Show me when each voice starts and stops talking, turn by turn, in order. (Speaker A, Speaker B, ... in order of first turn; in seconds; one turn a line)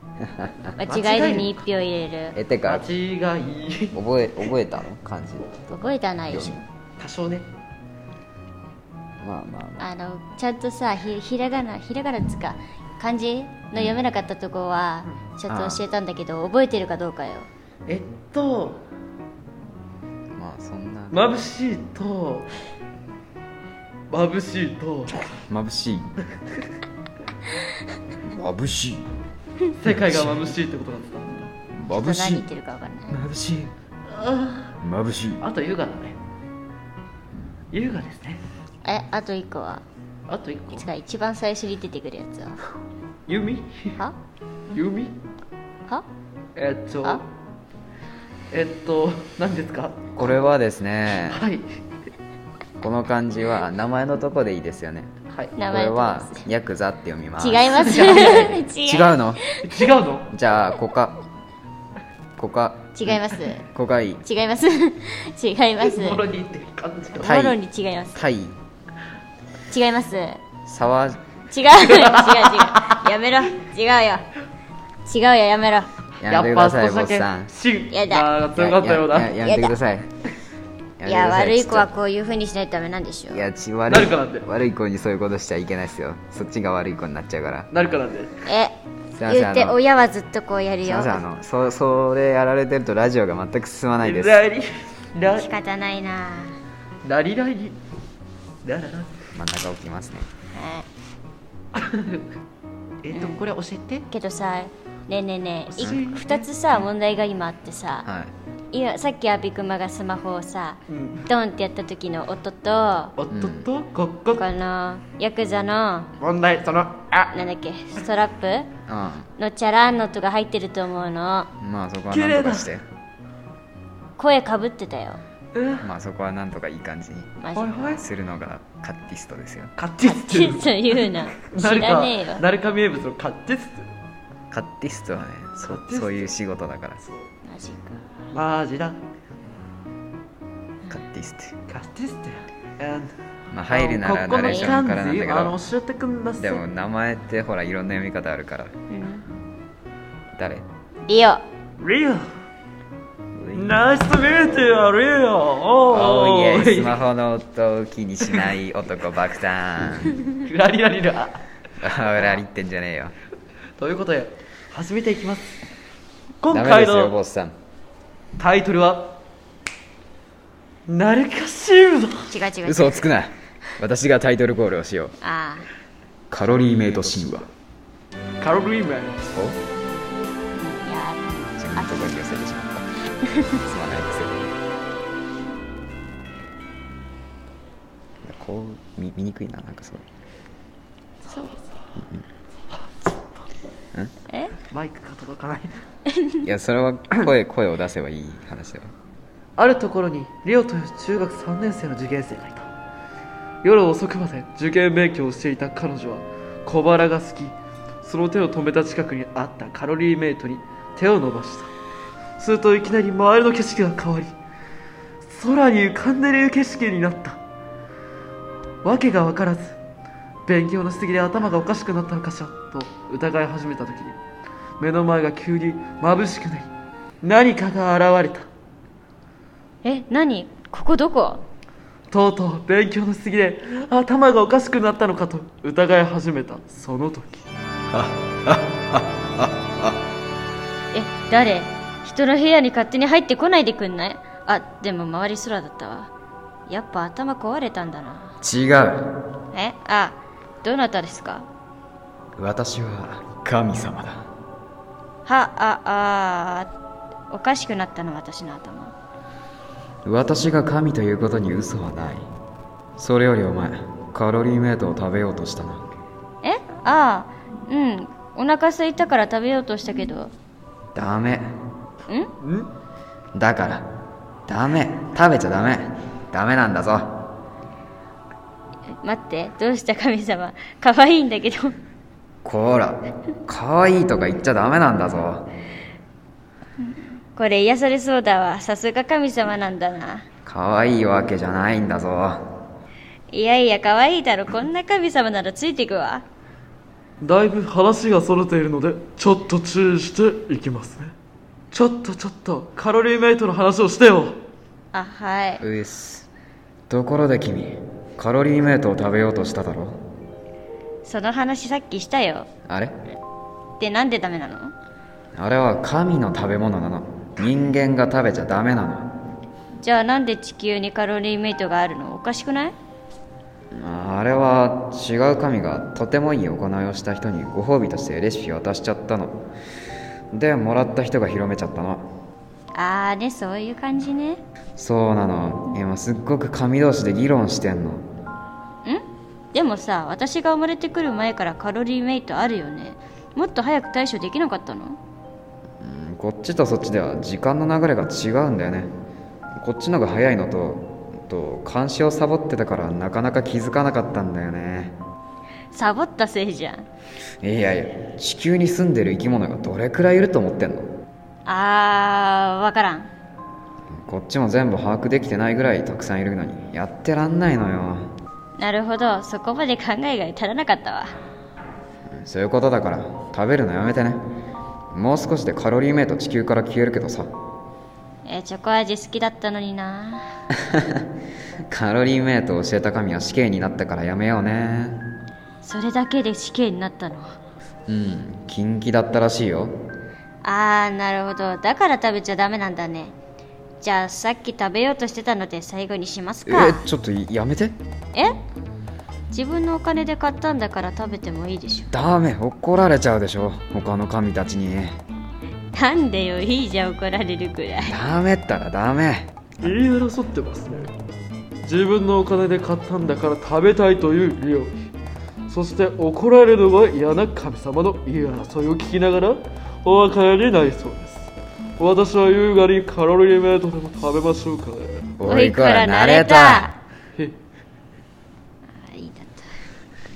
Speaker A: 0.2-0.8
Speaker B: 0.8-2.4
Speaker C: 0.9-1.6
Speaker A: 2.4-2.9
Speaker C: 2.6-4.0
Speaker A: 3.9-5.5
Speaker B: 5.7-6.6
Speaker A: 6.3-6.6
Speaker C: 7.0-7.5
Speaker A: 9.2-9.8
Speaker B: 9.8-17.5
Speaker A: 13.7-14.0
Speaker A: 15.5-15.8
Speaker C: 17.9-18.8
Speaker A: 20.3-21.2
Speaker C: 21.1-22.5
Speaker C: 24.1-25.3
Speaker A: 25.5-26.2
Speaker A: 28.2-29.1
Speaker C: 29.8-31.5
Speaker A: 29.8-30.5
Speaker A: 31.7-32.5
Speaker B: 31.9-33.2
Speaker A: 33.1-33.7
Speaker C: 34.1-34.7
Speaker A: 34.8-35.4
Speaker C: 35.4-36.2
Speaker C: 37.7-38.4
Speaker B: 38.8-39.8
Speaker C: 40.3-40.9
Speaker B: 40.8-42.6
Speaker C: 43.3-44.0
Speaker C: 44.7-45.1
Speaker C: 46.6-47.2
Speaker C: 48.5-50.3
Speaker A: 50.2-51.4
Speaker C: 51.3-51.6
Speaker A: 52.8-55.1
Speaker C: 55.3-55.5
Speaker B: 55.6-56.5
Speaker A: 55.7-59.4
Speaker B: 57.4-59.7
Speaker C: 57.9-58.5
Speaker C: 59.6-60.3
Speaker A: 60.3-61.2
Speaker A: 62.4-64.2
Speaker B: 63.0-63.6
Speaker B: 64.2-66.2
Speaker C: 65.8-67.3
Speaker B: 67.2-68.2
Speaker A: 67.2-67.6
Speaker A: 68.2-68.6
Speaker B: 69.7-70.4
Speaker A: 70.7-71.2
Speaker B: 71.5-74.3
Speaker C: 71.9-73.0
Speaker B: 75.1-75.9
Speaker A: 76.2-77.5
Speaker C: 76.2-79.4
Speaker B: 77.9-78.3
Speaker A: 78.5-80.1
Speaker B: 79.4-79.8
Speaker A: 81.0-81.9
Speaker B: 81.0-83.4
Speaker A: 83.3-87.7
Speaker C: 83.9-84.5
Speaker C: 87.7-88.4
Speaker B: 88.5-91.2
Speaker A: 89.2-89.8
Speaker A: 90.8-94.4
Speaker C: 94.0-95.5
Speaker B: 95.2-96.6
Speaker C: 97.0-97.8
Speaker C: 98.7-99.2
Speaker A: 99.3-100.3
Speaker B: 100.5-100.9
Speaker C: 101.7-102.3
Speaker C: 103.0-104.1
Speaker B: 103.1-103.4
Speaker B: 104.1-108.1
Speaker C: 105.8-106.5
Speaker A: 108.0-108.3
Speaker B: 108.7-113.2
Speaker C: 110.9-111.3
Speaker C: 113.2-114.5
Speaker A: 113.3-113.7
Speaker B: 114.3-116.1
Speaker C: 116.2-117.3
Speaker B: 117.3-118.7
Speaker A: 118.9-119.3
Speaker B: 119.4-121.5
Speaker A: 121.6-122.8
Speaker C: 122.1-122.7
Speaker B: 124.2-125.2
Speaker C: 125.5-125.9
Speaker A: 125.8-129.7
Speaker B: 127.4-127.9
Speaker C: 127.5-128.1
Speaker C: 129.8-133.9
Speaker B: 130.0-132.4
Speaker A: 134.5-137.0
Speaker C: 135.7-136.3
Speaker B: 137.4-138.1
Speaker C: 138.3-139.0
Speaker A: 140.9-141.6
Speaker C: 141.7-143.1
Speaker A: 143.5-145.6
Speaker C: 143.7-146.6
Speaker B: 144.4-144.7
Speaker A: 146.4-148.7
Speaker B: 148.9-149.2
Speaker A: 150.3-150.7
Speaker B: 151.1-151.4
Speaker C: 151.8-152.3
Speaker A: 153.3-153.8
Speaker C: 153.5-157.0
Speaker A: 155.9-160.2
Speaker C: 160.3-161.4
Speaker A: 161.8-163.1
Speaker C: 163.8-165.6
Speaker C: 166.4-167.2
Speaker A: 166.5-167.5
Speaker C: 168.4-169.2
Speaker C: 170.9-172.3
Speaker B: 172.3-173.1
Speaker A: 172.7-175.2
Speaker B: 175.2-175.7
Speaker A: 176.3-177.5
Speaker C: 178.4-179.2
Speaker A: 179.3-179.6
Speaker B: 180.6-182.2
Speaker A: 181.6-182.9
Speaker B: 183.2-183.6
Speaker A: 183.6-184.5
Speaker A: 188.2-190.1
Speaker C: 191.2-191.7
Speaker C: 192.8-193.1
Speaker B: 194.3-194.6
Speaker C: 194.7-195.8
Speaker B: 196.1-196.4
Speaker A: 196.4-198.9
Speaker C: 199.6-202.7
Speaker C: 203.6-211.7
Speaker C: 212.4-214.3
Speaker C: 215.2-217.4
Speaker C: 218.8-219.8
Speaker C: 220.5-224.2
Speaker C: 224.8-226.7
Speaker C: 227.2-228.5
Speaker B: 229.8-231.4
Speaker C: 232.1-237.4
Speaker A: 237.9-240.0
Speaker B: 240.9-246.1
Speaker B: 246.7-248.4
Speaker A: 248.4-249.2
Speaker B: 249.5-251.5
Speaker A: 252.4-254.3
Speaker B: 255.3-256.7
Speaker B: 257.3-258.9
Speaker A: 260.1-262.3
Speaker A: 263.0-265.9
Speaker B: 266.4-270.3
Speaker A: 270.9-271.6
Speaker C: 272.4-272.7
Speaker A: 273.4-273.9
Speaker A: 274.5-277.3
Speaker B: 279.0-281.8
Speaker A: 282.4-285.5
Speaker B: 286.9-290.3
Speaker A: 290.5-292.4
Speaker B: 293.3-296.2
Speaker C: 297.2-301.1
Speaker C: 301.7-304.4
Speaker B: 304.9-305.6
Speaker A: 305.6-306.3
Speaker A: 306.9-310.0
Speaker B: 311.1-312.5
Speaker A: 312.7-313.0
Speaker B: 313.8-314.7
Speaker A: 315.4-319.2
Speaker B: 319.8-322.8
Speaker A: 323.7-329.4
Speaker A: 330.3-332.1
Speaker B: 332.7-334.4
Speaker A: 334.8-338.1
Speaker B: 338.9-345.0
Speaker A: 345.8-348.9
Speaker A: 349.6-354.9
Speaker B: 355.7-356.9
Speaker A: 357.4-360.9
Speaker B: 361.5-363.1
Speaker A: 363.9-368.1
Speaker B: 368.6-371.1
Speaker A: 372.1-374.2
Speaker A: 374.9-377.3
Speaker B: 378.2-380.3
Speaker A: 380.6-381.1
Speaker A: 381.7-385.1
Speaker B: 385.6-387.4
Speaker A: 387.9-389.8
Speaker B: 390.4-393.1
Speaker B: 393.8-396.9
Speaker A: 396.5-397.8
Speaker B: 399.3-401.9
Speaker A: 401.9-405.0
Speaker B: 405.7-408.0
Speaker A: 407.9-409.7
Speaker C: 409.6-410.9
Speaker C: 411.6-414.7
Speaker C: 415.5-425.1
Speaker A: 425.2-426.7
Speaker B: 425.3-426.8
Speaker B: 428.7-429.5